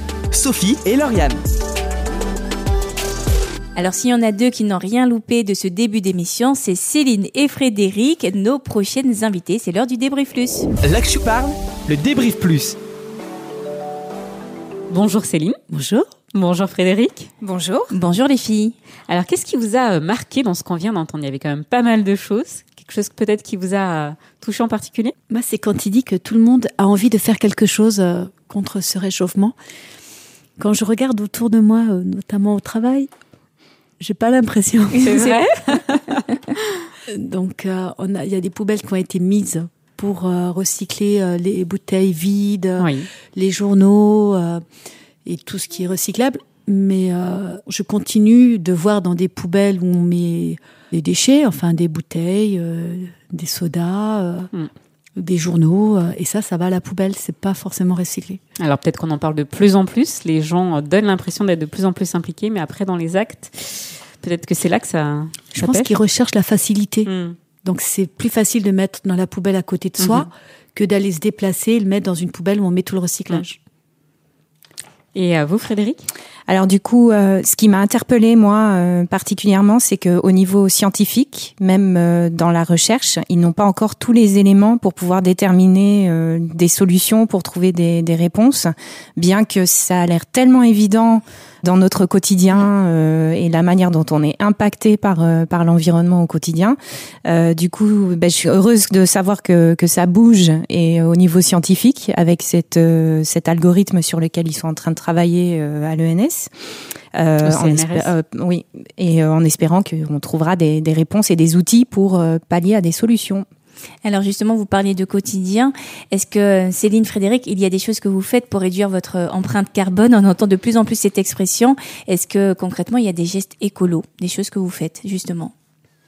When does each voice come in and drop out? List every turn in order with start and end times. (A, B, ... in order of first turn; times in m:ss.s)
0:00.3-0:01.4 A
0:03.8-0:10.7 B
0:10.8-0:12.8 A
0:14.9-0:15.6 C
0:15.7-0:16.1 D
0:16.3-0:17.3 C
0:17.4-0:17.9 E
0:17.9-0:18.8 B
0:19.1-0:25.1 C
0:25.3-0:29.5 D
0:30.6-0:33.1 D
0:34.0-0:35.9 D
0:35.0-0:36.2 C
0:37.1-0:44.6 D
0:42.8-0:43.1 C
0:45.2-0:54.5 D
0:55.2-0:58.4 D
0:58.6-1:05.9 C
1:05.5-1:07.1 D
1:07.1-1:07.4 C
1:07.6-1:13.6 D
1:10.0-1:10.3 C
1:15.2-1:16.1 C
1:16.5-1:46.5 E
1:47.2-1:53.5 E
1:47.4-1:48.1 C
1:54.0-2:05.5 B